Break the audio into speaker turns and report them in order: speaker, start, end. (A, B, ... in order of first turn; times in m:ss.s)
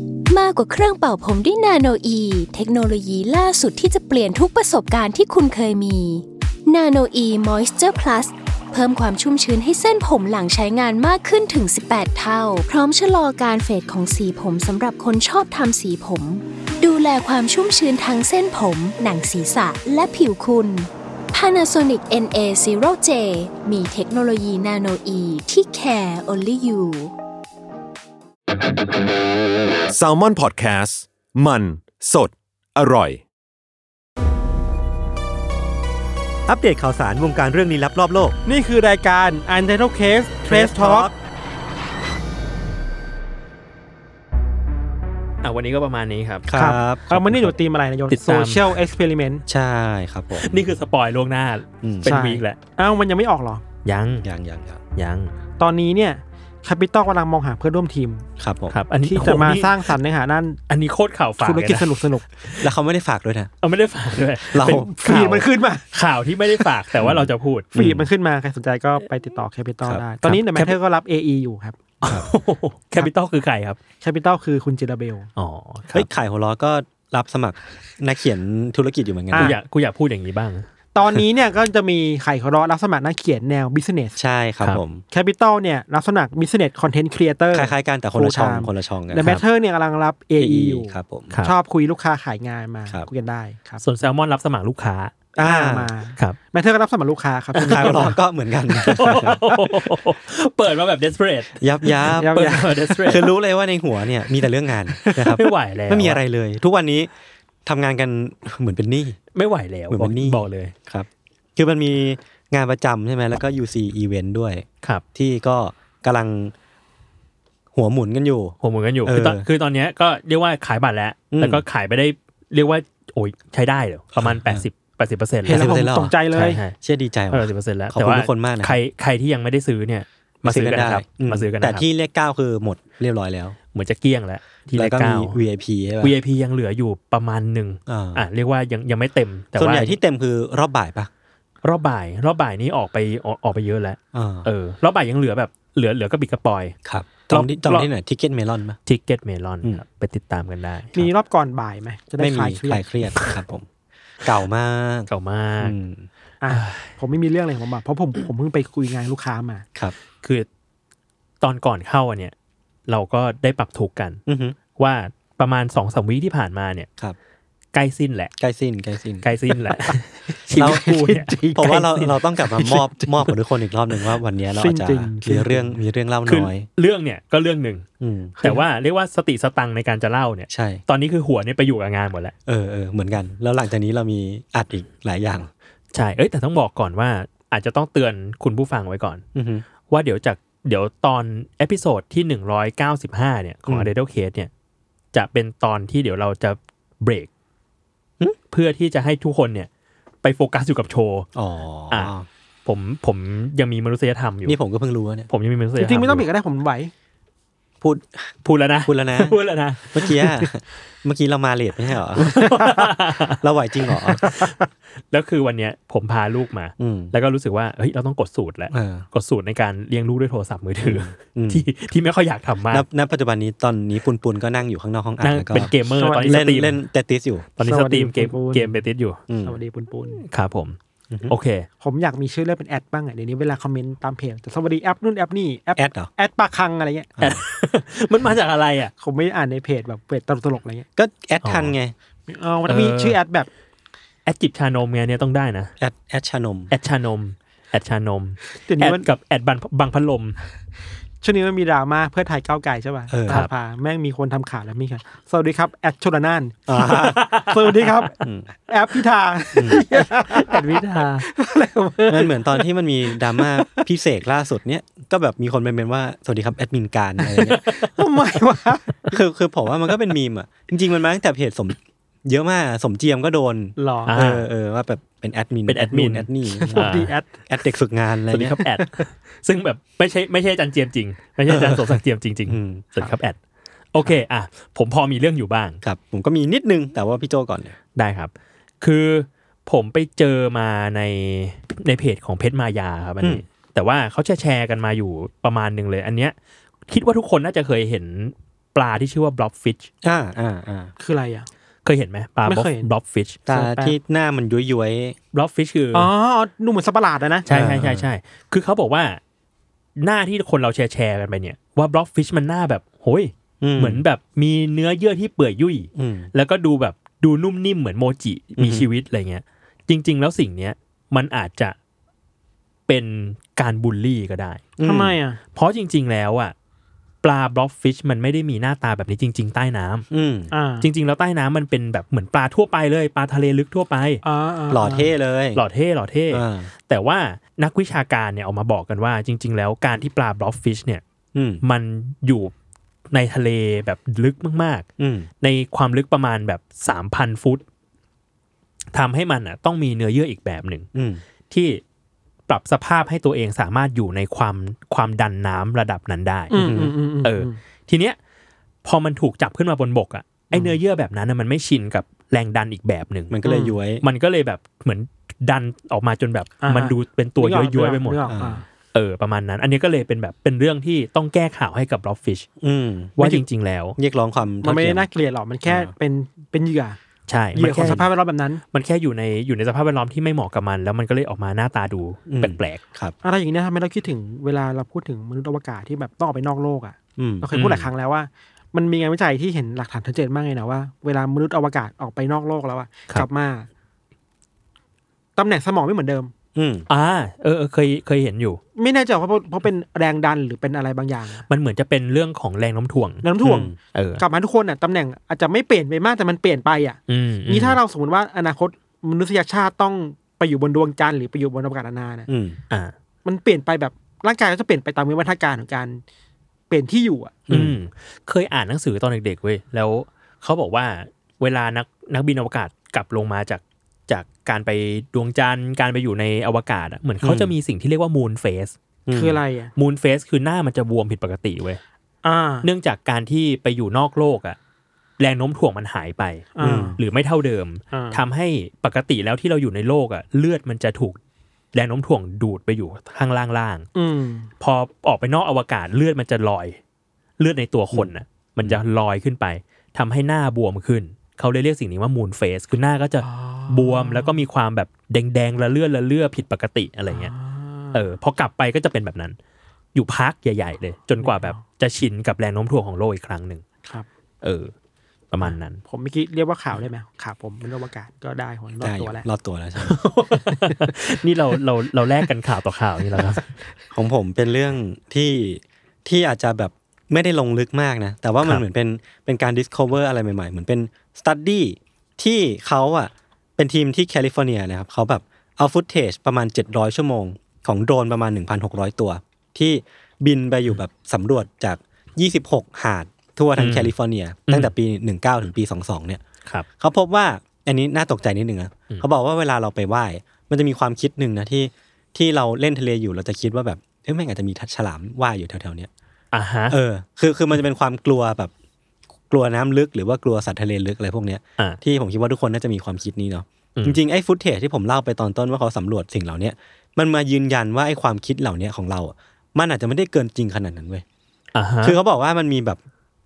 0:00.3-0:27.1 A
0:29.9-0:33.2 B
0:36.5-0:38.4 C
0:38.4-0:41.1 D
0:40.5-0:41.1 C
0:45.4-0:46.5 E
0:46.5-0:47.2 C
0:46.5-0:49.4 D
0:47.1-0:47.5 E
0:48.1-0:48.7 E
0:49.5-0:50.6 C
0:50.4-0:52.6 E
0:51.8-0:52.2 C
0:52.0-0:53.6 D
0:53.8-0:54.3 E
0:54.2-0:54.8 C
0:55.0-0:55.3 E
0:55.6-0:58.3 D
0:58.4-0:58.8 C
0:58.7-0:59.9 E
0:59.1-1:00.6 D
1:00.7-1:01.9 E
1:01.4-1:02.2 D
1:02.4-1:02.7 E
1:02.6-1:03.5 C
1:03.6-1:07.8 E
1:04.5-1:05.2 C
1:04.6-1:05.8 D
1:07.0-1:08.1 C
1:07.8-1:11.8 D
1:10.2-1:10.7 E
1:12.0-1:13.8 E
1:14.0-1:15.3 D
1:15.4-1:16.1 E
1:15.9-1:19.6 C
1:19.3-1:19.6 D
1:19.4-1:20.7 E
1:21.0-1:24.2 D
1:24.2-1:25.0 C
1:25.1-1:33.8 D
1:27.5-1:29.4 C
1:30.4-1:31.3 C
1:33.8-1:35.2 E
1:35.4-1:35.9 C
1:35.4-1:38.2 D
1:37.6-1:38.1 E
1:37.6-1:39.4 C
1:38.8-1:39.6 D
1:38.8-1:43.3 E
1:41.6-1:47.1 C
1:42.2-1:42.9 D
1:45.0-1:45.4 D
1:45.2-1:46.2 E
1:47.6-1:49.2 C
1:49.4-1:50.7 E
1:49.9-1:56.5 C
1:57.7-1:59.5 C
1:58.6-2:05.7 E
2:01.3-2:01.6 C
2:04.2-2:04.6 C
2:05.4-2:06.6 D
2:05.5-2:08.8 C
2:06.3-2:06.8 E
2:07.3-2:11.8 E
2:10.4-2:13.6 C
2:13.7-2:15.4 E
2:14.8-2:16.2 C
2:16.0-2:20.0 E
2:17.9-2:18.3 C
2:19.6-2:21.1 C
2:21.6-2:26.8 E
2:24.1-2:24.5 C
2:26.8-2:28.8 C
2:27.3-2:27.9 E
2:28.9-2:31.1 E
2:31.0-2:32.9 D
2:32.2-2:33.7 C
2:34.2-2:36.1 C
2:35.1-2:35.8 E
2:36.4-2:39.6 D
2:36.5-2:36.9 E
2:41.4-2:42.3 E
2:42.9-2:44.2 E
2:44.3-2:44.6 C
2:44.8-2:46.9 E
2:47.7-2:48.3 E
2:48.4-2:49.3 C
2:49.2-2:51.8 E
2:50.5-2:50.9 C
2:50.5-2:53.3 D
2:51.6-2:56.7 C
2:54.6-2:55.8 D
2:56.3-2:57.8 E
2:58.0-2:58.4 C
2:58.4-3:02.3 E
3:00.5-3:00.8 C
3:02.5-3:05.5 C
3:05.9-3:09.2 E
3:09.4-3:09.7 C
3:09.9-3:14.5 E
3:13.7-3:13.9 C
3:15.1-3:17.3 E
3:18.5-3:19.7 E
3:20.2-3:21.3 E
3:21.4-3:22.3 C
3:22.7-3:24.6 E
3:24.5-3:25.3 C
3:25.3-3:26.2 E
3:25.8-3:26.9 D
3:27.8-3:28.3 C
3:28.4-3:30.0 E
3:28.8-3:29.4 C
3:29.9-3:32.4 C
3:32.2-3:33.4 E
3:32.2-3:32.8 D
3:33.4-3:34.3 C
3:34.2-3:34.5 D
3:34.2-3:34.6 E
3:35.1-3:42.9 E
3:36.8-3:37.1 C
3:38.7-3:39.1 C
3:40.8-3:41.6 C
3:42.7-3:47.5 C
3:45.2-3:46.8 E
3:45.9-3:46.5 D
3:47.6-3:49.2 E
3:47.6-3:48.8 D
3:49.3-3:49.6 C
3:49.4-3:50.2 D
3:50.3-3:50.8 E
3:51.1-3:51.4 C
3:51.3-3:51.7 E
3:51.8-3:57.1 D
3:55.8-3:56.1 C
3:57.2-3:58.9 E
3:59.0-4:00.9 D
4:01.0-4:02.0 C
4:01.4-4:01.7 E
4:02.3-4:03.5 D
4:02.7-4:03.2 E
4:04.3-4:05.7 E
4:05.8-4:06.7 C
4:06.7-4:10.4 E
4:08.6-4:09.1 D
4:11.2-4:23.9 D
4:13.1-4:13.4 C
4:16.7-4:17.3 C
4:16.9-4:18.1 E
4:18.2-4:18.5 C
4:19.6-4:19.8 C
4:19.9-4:21.3 E
4:22.1-4:27.6 C
4:27.4-4:27.9 E
4:27.6-4:29.0 D
4:29.1-4:38.6 C
4:33.8-4:34.1 D
4:34.1-4:34.5 E
4:35.7-4:37.1 E
4:36.5-4:37.3 D
4:38.3-4:43.4 E
4:38.6-4:39.0 D
4:41.5-4:42.9 C
4:43.9-4:45.8 E
4:45.8-4:47.8 C
4:48.0-4:56.4 E
4:56.9-4:59.9 E
5:00.0-5:00.9 C
5:01.0-5:01.5 D
5:01.8-5:03.4 E
5:02.5-5:02.9 D
5:03.5-5:05.2 C
5:03.5-5:04.0 D
5:05.3-5:06.1 E
5:05.9-5:07.5 D
5:07.5-5:09.2 E
5:07.5-5:08.1 C
5:10.0-5:21.8 E
5:13.6-5:14.0 C
5:16.0-5:16.3 C
5:18.6-5:18.9 C
5:22.9-5:24.6 E
5:24.8-5:25.2 C
5:24.8-5:25.4 D
5:25.5-5:26.5 E
5:27.2-5:30.1 E
5:30.1-5:30.5 C
5:30.5-5:30.9 D
5:30.8-5:34.2 E
5:34.2-5:35.1 D
5:34.7-5:35.6 C
5:35.6-5:41.0 E
5:36.3-5:36.7 C
5:41.4-5:41.6 C
5:41.6-5:42.5 E
5:43.1-5:44.9 E
5:45.0-5:45.3 C
5:45.4-5:47.6 E
5:48.9-5:50.9 E
5:51.0-5:51.2 C
5:51.5-5:51.8 E
5:52.5-5:56.7 E
5:56.5-5:57.6 D
5:56.6-5:56.9 C
5:57.2-5:58.2 E
5:58.8-6:03.4 E
6:00.5-6:00.8 D
6:03.3-6:04.0 C
6:03.4-6:03.8 D
6:04.0-6:08.3 E
6:06.6-6:08.6 D
6:08.3-6:08.6 C
6:08.9-6:12.5 E
6:12.6-6:13.3 C
6:13.2-6:14.0 E
6:14.0-6:15.0 C
6:14.6-6:17.0 D
6:15.7-6:15.9 C
6:17.3-6:18.1 E
6:17.6-6:18.6 D
6:18.7-6:22.8 E
6:22.3-6:23.2 C
6:23.2-6:33.7 D
6:27.2-6:27.5 C
6:27.5-6:27.9 E
6:35.4-6:36.3 D
6:36.6-6:36.9 C
6:36.9-6:38.6 E
6:38.8-6:41.5 D
6:41.5-6:43.3 E
6:43.2-6:52.3 D
6:43.4-6:43.8 C
6:43.9-6:44.2 E
6:47.1-6:47.8 E
6:52.3-6:52.6 C
6:53.2-6:56.0 D
6:56.7-6:57.4 D
6:57.5-6:57.8 C
6:57.5-7:08.8 E
7:07.2-7:07.5 C
7:09.1-7:09.4 C
7:09.1-7:09.7 D
7:09.8-7:11.8 E
7:12.2-7:12.7 D
7:12.6-7:14.6 E
7:15.2-7:21.2 E
7:16.6-7:17.0 D
7:16.6-7:17.0 C
7:17.9-7:18.2 D
7:21.7-7:23.9 E
7:24.0-7:24.5 D
7:24.6-7:26.8 E
7:27.4-7:37.3 E
7:27.9-7:28.8 C
7:33.2-7:34.4 D
7:37.1-7:38.0 D
7:37.9-7:39.4 E
7:40.0-7:43.6 E
7:41.2-7:41.6 D
7:44.4-7:44.7 E
7:45.3-7:45.8 E
7:45.4-7:49.3 D
7:48.8-7:50.0 C
7:49.8-7:53.4 E
7:50.5-7:50.9 D
7:53.9-8:16.2 C
8:13.6-8:13.9 E
8:16.8-8:25.9 C
8:26.3-8:26.8 E
8:26.7-8:28.5 C
8:29.3-8:41.0 C
8:41.5-8:42.0 E
8:41.8-8:42.8 C